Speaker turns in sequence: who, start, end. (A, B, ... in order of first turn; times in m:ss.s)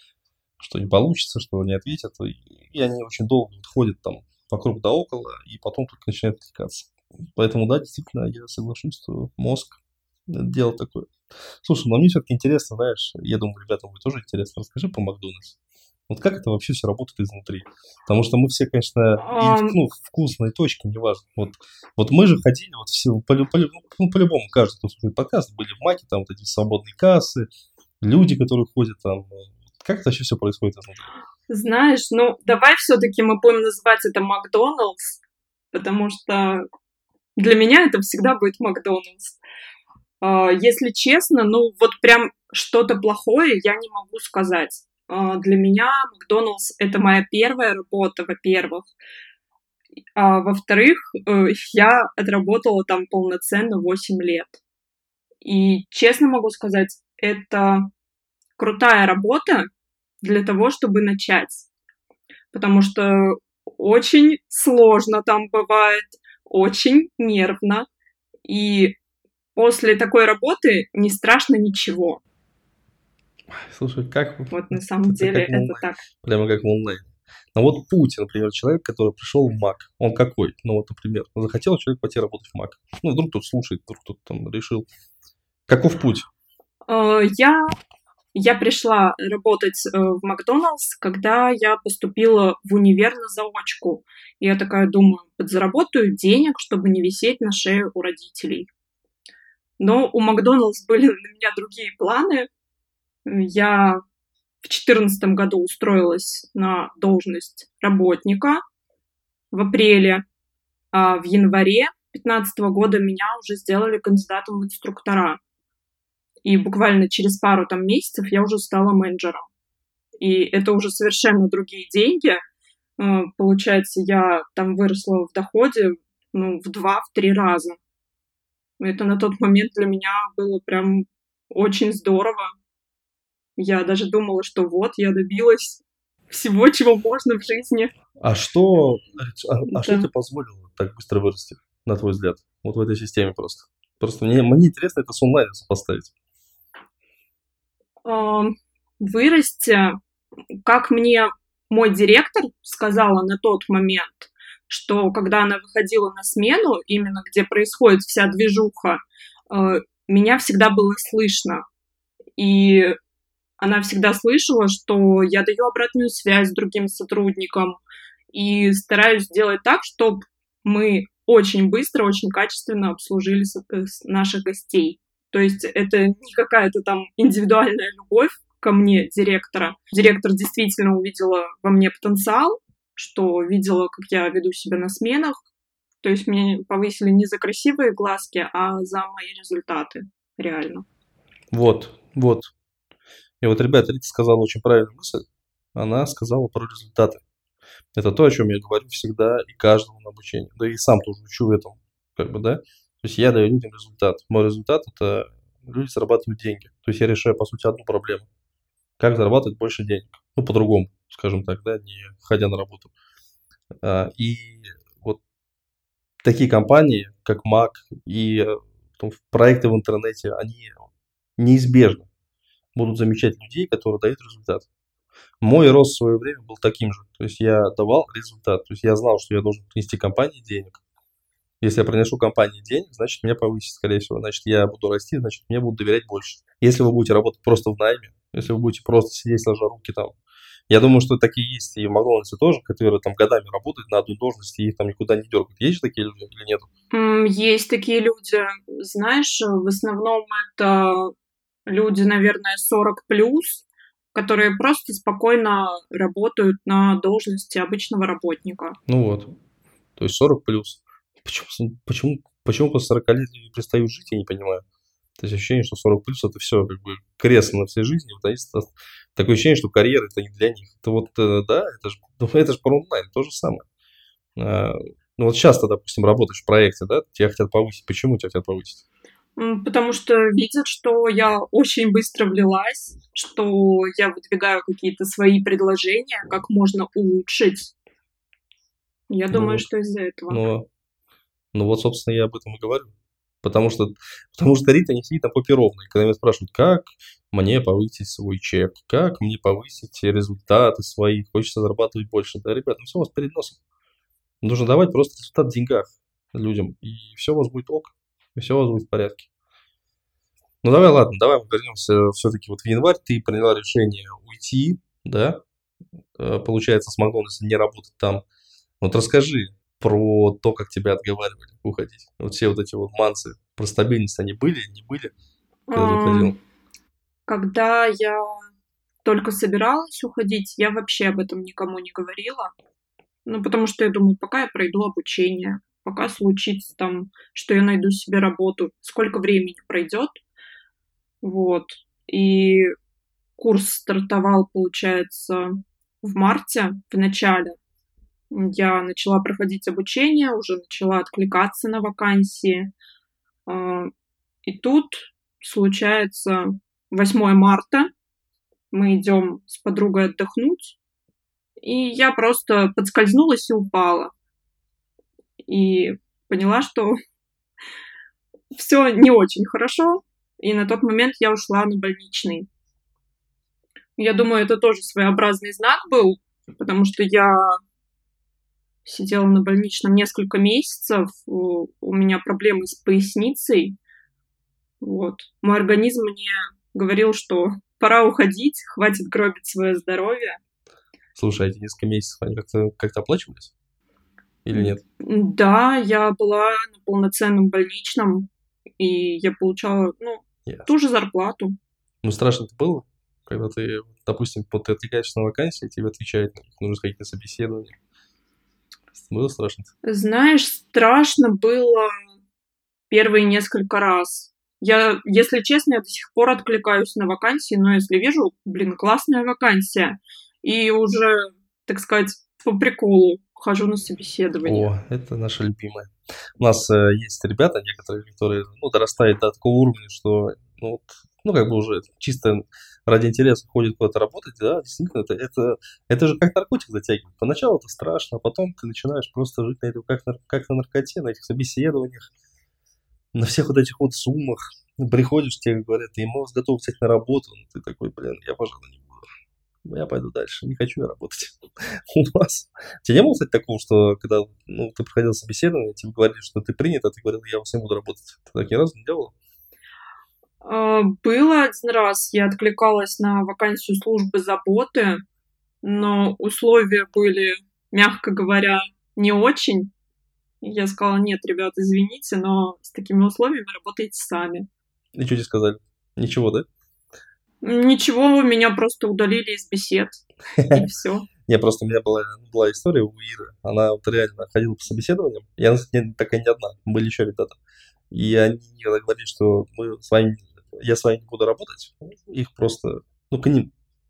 0:00.6-0:11.1 A
0:11.6-0:15.6 A
0:16.1-0:27.5 A
0:19.2-0:19.8 B
0:28.0-0:31.1 A
0:31.5-0:35.2 B
0:35.7-0:36.6 B
0:37.4-0:39.4 B
0:40.2-0:48.9 B
0:50.2-0:54.6 B
0:55.4-0:57.9 B
0:58.6-0:59.7 B
1:00.2-1:01.7 B
1:02.5-1:07.9 B
1:08.5-1:09.0 B
1:09.6-1:12.2 B
1:13.5-1:24.9 A
1:14.5-1:16.0 B
1:25.7-1:26.3 A
1:26.9-1:27.7 B
1:28.3-1:38.7 B
1:39.8-1:42.5 B
1:43.3-1:44.0 B
1:44.6-1:48.6 B
1:49.5-1:50.2 B
1:50.9-1:55.4 B
1:56.4-1:59.5 B
2:00.2-2:02.4 B
2:03.0-2:07.8 B
2:08.8-2:12.5 B
2:13.6-2:17.9 B
2:18.2-2:26.1 A
2:19.7-2:20.1 B
2:28.0-2:30.0 B
2:30.6-2:41.6 B
2:42.4-2:43.0 B
2:43.6-2:47.8 B
2:48.3-3:05.4 B
3:06.0-3:10.9 B
3:11.5-3:12.5 A
3:13.4-3:17.2 A
3:18.0-3:28.3 A
3:29.0-3:32.9 A
3:33.8-3:35.2 A
3:36.2-3:42.1 A
3:42.8-3:44.7 A
3:45.4-3:50.8 A
3:51.6-4:00.2 A
4:00.7-4:06.7 A
4:06.9-4:11.1 B
4:11.7-4:18.8 B
4:18.9-4:19.4 A
4:20.0-4:24.6 A
4:25.2-4:33.6 A
4:34.4-4:38.8 A
4:39.4-4:47.7 B
4:49.1-4:50.4 B
4:49.3-4:49.7 A
4:50.3-4:50.7 A
4:51.5-5:03.6 A
5:04.4-5:09.3 A
5:10.6-5:15.4 A
5:16.2-5:18.2 A
5:18.8-5:25.1 A
5:25.7-5:26.4 B
5:25.7-5:26.4 A
5:27.3-5:28.4 B
5:29.0-5:32.5 B
5:33.3-5:40.2 B
5:41.2-5:42.7 B
5:43.4-5:47.6 B
5:48.3-5:52.7 B
5:53.5-5:53.9 B
5:54.4-5:57.9 B
5:58.7-6:00.8 B
6:01.6-6:04.1 B
6:05.5-6:07.0 B
6:08.5-6:12.5 B
6:14.0-6:17.6 B
6:18.8-6:23.8 B
6:24.8-6:30.4 B
6:31.1-6:33.5 A
6:34.4-6:34.8 A
6:34.5-6:41.6 B
6:42.0-6:47.8 A
6:48.9-6:49.7 A
6:49.8-6:52.1 B
6:52.9-7:04.7 B
7:04.4-7:22.1 A
7:23.1-7:29.1 A
7:29.7-7:31.4 A
7:31.9-7:39.1 A
7:40.4-7:45.0 B
7:45.6-7:49.7 B
7:50.4-7:54.5 B
7:55.0-7:56.4 A
7:57.4-8:00.0 B
8:00.4-8:00.6 A
8:00.5-8:01.1 B
8:01.3-8:07.4 A
8:07.9-8:13.5 A